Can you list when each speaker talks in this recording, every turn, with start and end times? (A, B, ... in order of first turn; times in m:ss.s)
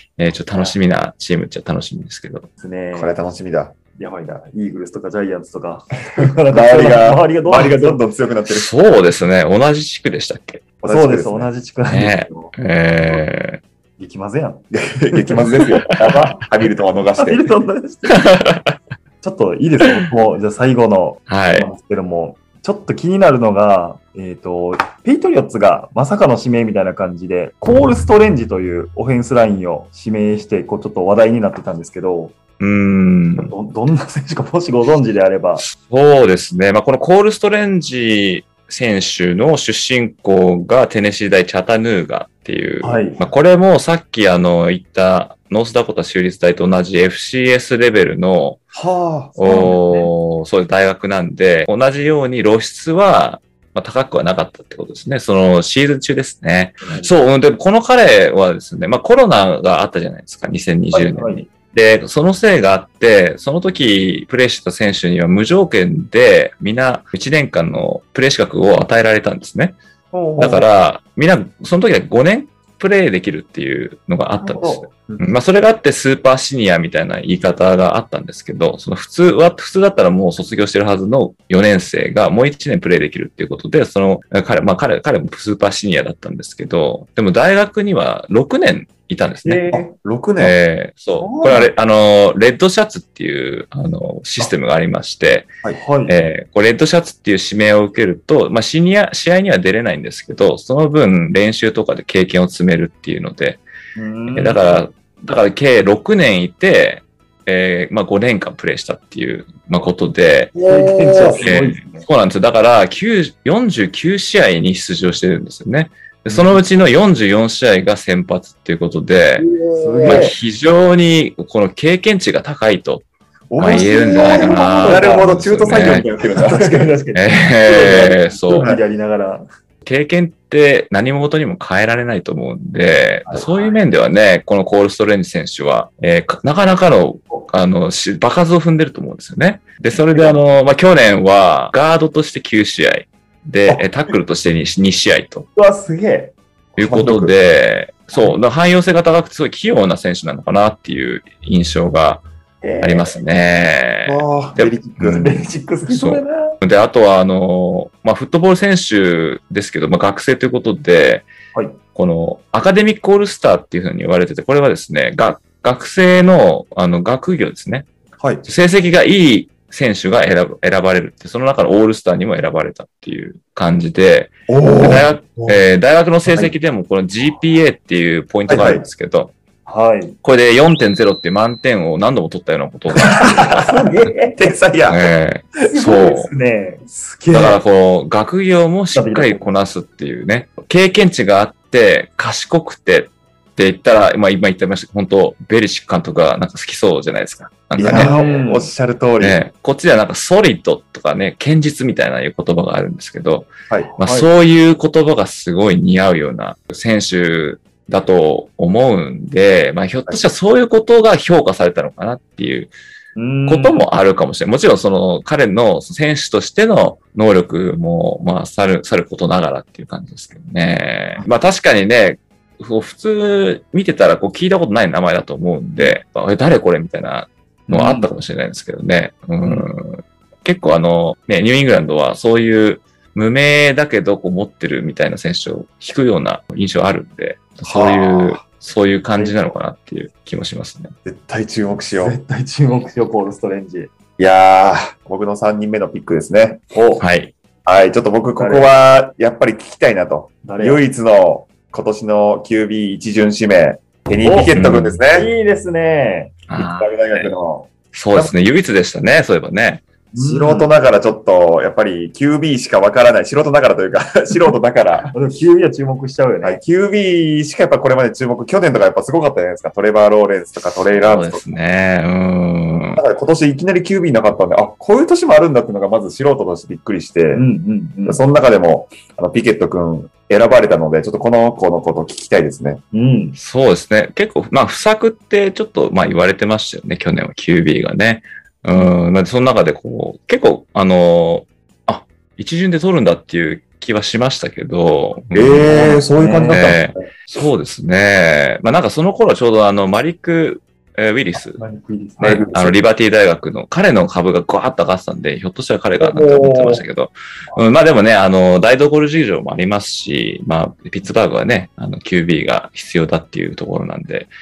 0:00.2-0:02.5 A
0:02.6-0:03.2 B
0:02.9-0:03.7 C
0:04.0-0:08.0 B
0:06.5-0:08.7 C
0:08.5-0:10.6 A
0:10.8-0:11.5 C
0:10.8-0:13.2 B
0:11.8-0:13.6 A
0:14.0-0:15.3 B
0:14.7-0:17.6 C
0:16.0-0:16.4 B
0:17.2-0:18.3 B
0:18.1-0:18.7 A
0:19.2-0:32.4 B
0:21.3-0:21.7 A
0:32.6-0:33.5 A
0:33.4-0:35.6 B
0:35.6-0:48.6 A
0:42.8-0:43.2 B
0:48.7-0:49.8 C
0:49.4-1:09.8 A
0:49.4-0:50.1 B
1:00.9-1:01.4 B
1:10.1-1:10.7 B
1:10.4-1:29.8 A
1:14.4-1:15.2 B
1:29.4-1:29.9 B
1:29.7-1:30.6 C
1:30.4-1:35.5 A
1:31.2-1:31.7 B
1:31.3-1:31.6 C
1:35.7-1:36.2 B
1:36.0-1:43.6 A
1:44.0-1:44.6 B
1:44.3-1:50.5 A
1:50.5-1:51.5 C
1:50.7-1:52.0 B
1:51.3-1:59.5 A
1:59.4-2:00.3 C
1:59.8-2:00.4 B
2:00.0-2:03.0 A
2:03.5-2:06.9 C
2:03.6-2:06.1 A
2:03.7-2:05.4 B
2:06.2-2:09.4 B
2:07.1-2:08.7 A
2:08.6-2:08.8 C
2:09.8-2:25.4 A
2:19.9-2:20.4 B
2:25.6-2:26.3 B
2:26.8-2:32.2 A
2:26.8-2:27.3 C
2:32.6-2:33.2 B
2:32.8-2:35.3 A
2:34.0-2:35.4 C
2:35.0-2:36.6 B
2:35.9-2:41.3 A
2:41.9-2:47.9 A
2:48.2-2:48.4 C
2:48.4-2:59.3 A
2:54.5-2:55.6 C
2:58.5-2:58.8 C
2:59.6-3:00.2 B
3:00.2-3:03.8 A
3:03.1-3:04.5 B
3:03.1-3:03.7 C
3:04.3-3:05.1 C
3:04.9-3:06.3 A
3:05.7-3:06.9 B
3:06.9-3:07.6 C
3:07.3-3:18.1 A
3:08.9-3:09.4 B
3:17.8-3:19.4 C
3:17.8-3:18.7 B
3:19.2-3:32.7 A
3:23.9-3:24.3 B
3:33.2-3:33.8 B
3:33.5-4:00.9 A
3:47.7-3:48.0 B
3:57.6-3:58.4 C
3:59.1-3:59.6 B
4:01.0-4:02.2 C
4:01.9-4:03.9 B
4:04.2-4:06.6 C
4:06.7-4:07.0 B
4:07.0-4:07.3 A
4:07.6-4:15.3 C
4:08.4-4:08.7 B
4:10.4-4:10.8 B
4:14.2-4:14.6 B
4:14.5-4:15.0 A
4:15.1-4:16.4 B
4:16.5-4:17.3 A
4:16.5-4:18.3 C
4:17.9-4:19.8 A
4:20.1-4:20.7 B
4:20.2-4:25.1 C
4:25.1-4:26.6 B
4:26.4-4:31.4 C
4:30.9-4:33.0 A
4:32.9-4:37.4 C
4:37.3-4:38.2 B
4:38.0-4:42.8 C
4:42.9-4:43.4 B
4:43.4-5:01.6 A
4:55.3-4:57.0 C
4:55.6-4:56.6 B
5:01.5-5:02.5 B
5:02.2-5:14.3 A
5:02.2-5:02.8 C
5:06.0-5:06.8 C